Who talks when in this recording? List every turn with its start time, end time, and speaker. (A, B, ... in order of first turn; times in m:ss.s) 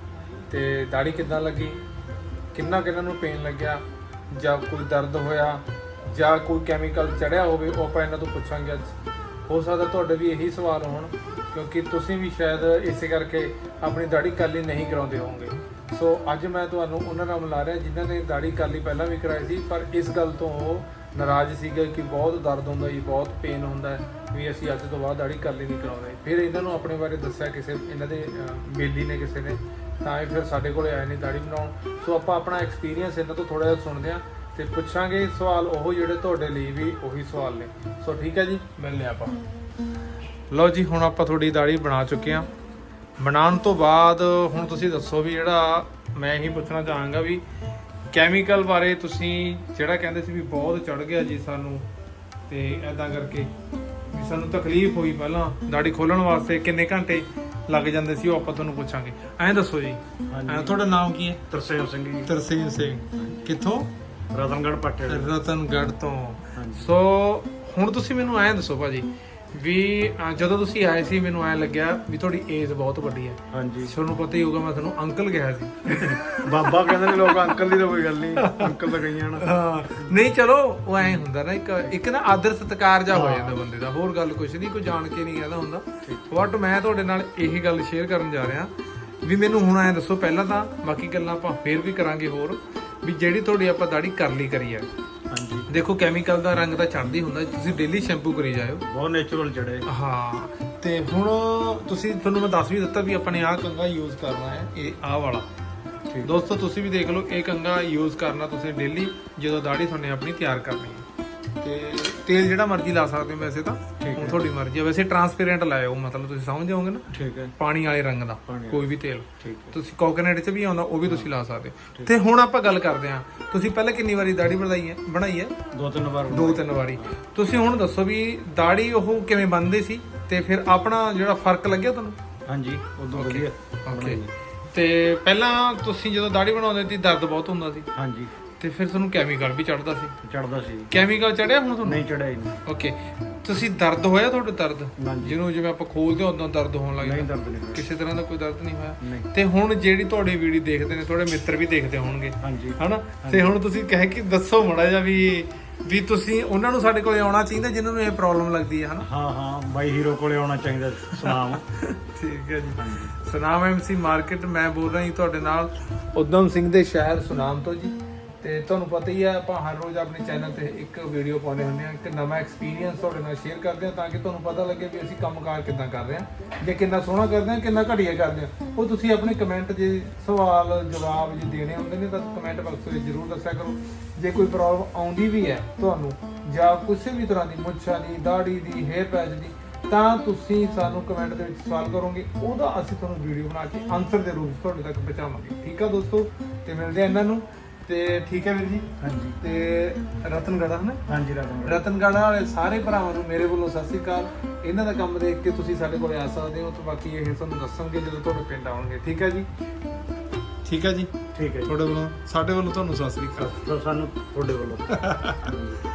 0:00.5-0:01.8 A
0:02.5-0:09.0 A
0:09.5-0:39.4 A
0:40.5-0:42.5 A
0:43.2-0:47.4 A
0:48.1-0:51.9 A
0:52.5-0:53.5 A
0:54.1-1:01.4 A
1:00.3-1:00.8 B
1:01.5-1:02.3 B
1:02.3-1:03.9 A
1:03.2-1:03.5 B
1:04.3-1:05.3 B
1:05.1-1:17.6 A
1:06.6-1:06.9 B
1:13.5-1:13.9 B
1:15.9-1:20.2 B
1:18.4-1:18.8 A
1:19.4-1:28.7 A
1:21.0-1:21.2 B
1:23.1-1:23.6 B
1:29.2-1:34.9 A
1:35.3-1:35.7 B
1:35.7-1:38.8 A
1:38.9-1:39.9 B
1:39.9-1:45.5 A
1:46.2-1:51.0 A
1:51.6-2:05.6 A
1:54.0-1:54.4 B
1:57.1-1:57.5 B
1:58.5-1:58.9 B
1:59.4-1:59.8 B
2:01.1-2:01.3 B
2:05.7-2:07.1 B
2:06.3-2:12.2 A
2:12.5-2:14.3 B
2:13.1-2:14.2 A
2:14.7-2:17.9 A
2:18.0-2:18.3 B
2:18.6-2:20.2 A
2:20.2-2:20.9 B
2:20.9-2:22.0 A
2:21.8-2:22.6 B
2:22.6-2:39.1 A
2:25.0-2:25.4 B
2:27.0-2:27.9 B
2:29.0-2:29.3 B
2:32.4-2:33.5 B
2:39.0-2:41.6 B
2:41.2-3:21.0 A
2:42.8-2:43.2 B
3:19.0-3:19.4 B
3:21.1-3:21.8 B
3:21.6-3:29.5 A
3:30.6-3:31.1 A
3:31.4-3:31.8 B
3:31.6-3:33.6 A
3:33.4-3:35.8 B
3:34.9-3:35.5 A